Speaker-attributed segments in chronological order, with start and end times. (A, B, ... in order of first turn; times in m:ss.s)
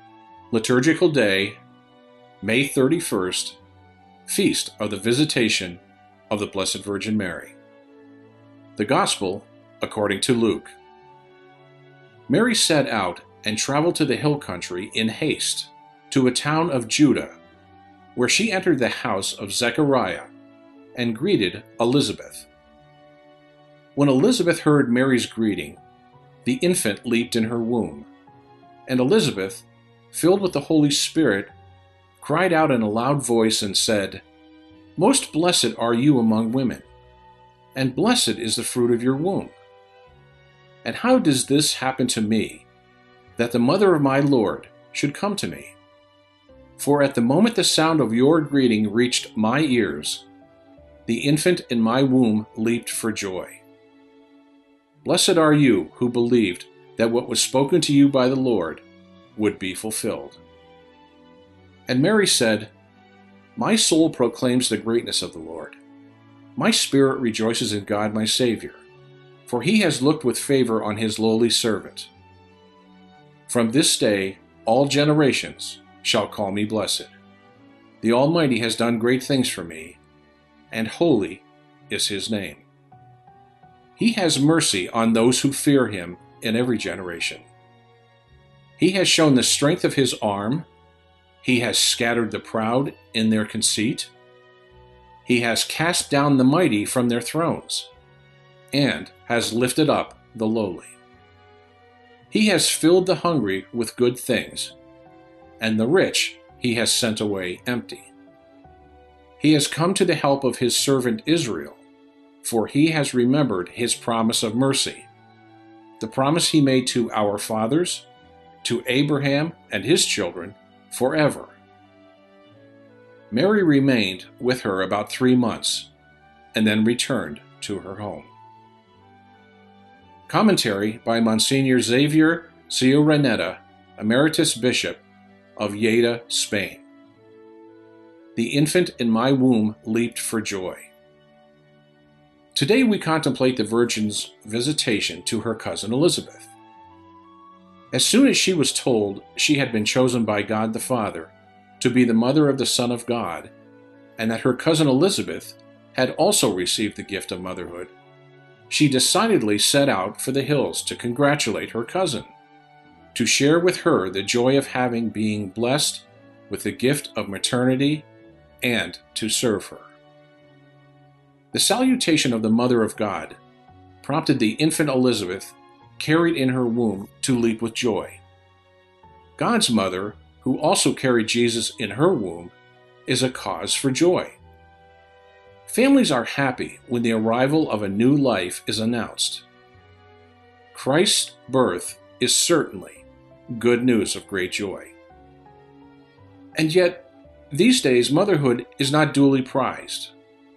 0:00.5-0:01.6 A
0:02.4-0:03.6 A
0:04.3-0:07.6 A
0:08.8-0:10.7 A
0:12.3-0:17.4 A
0:18.1-0:20.3 A
0:20.9-0:22.5 A
0:23.9-0:25.8 A
0:26.4-0:28.1 A
0:28.9-0:31.5 A
0:32.2-0:34.2 A
0:35.0-0:36.9 A
0:37.7-0:39.5 A
0:40.8-0:42.6 A
0:43.4-0:45.7 A
0:46.8-0:50.2 A
0:51.1-0:53.6 A
0:55.0-0:58.8 A
0:59.4-1:00.4 A
1:01.9-1:02.7 A
1:03.6-1:05.8 A
1:06.6-1:08.8 A
1:09.5-1:12.1 A
1:13.5-1:17.1 A
1:18.0-1:20.0 A
1:20.7-1:22.6 A
1:24.0-1:27.5 A
1:28.8-1:30.7 A
1:31.4-1:34.1 A
1:35.2-1:37.9 A
1:38.7-1:40.9 A
1:42.3-1:44.7 A
1:45.6-1:48.1 A
1:49.4-1:51.8 A
1:52.4-1:55.1 A
1:56.0-1:58.1 A
1:58.6-2:01.6 A
2:03.3-2:05.9 A
2:06.5-2:08.3 A
2:10.3-2:15.0 A
2:15.6-2:16.8 A
2:18.3-2:20.9 A
2:22.5-2:26.5 A
2:27.9-2:33.5 A
2:34.2-2:37.9 A
2:38.7-2:42.3 A
2:43.1-2:48.1 A
2:48.6-2:49.9 A
2:51.5-2:53.4 A
2:54.0-2:58.2 A
2:59.4-3:02.5 A
3:03.1-3:04.4 A
3:05.7-3:09.4 A
3:10.7-3:14.9 A
3:16.6-3:20.1 A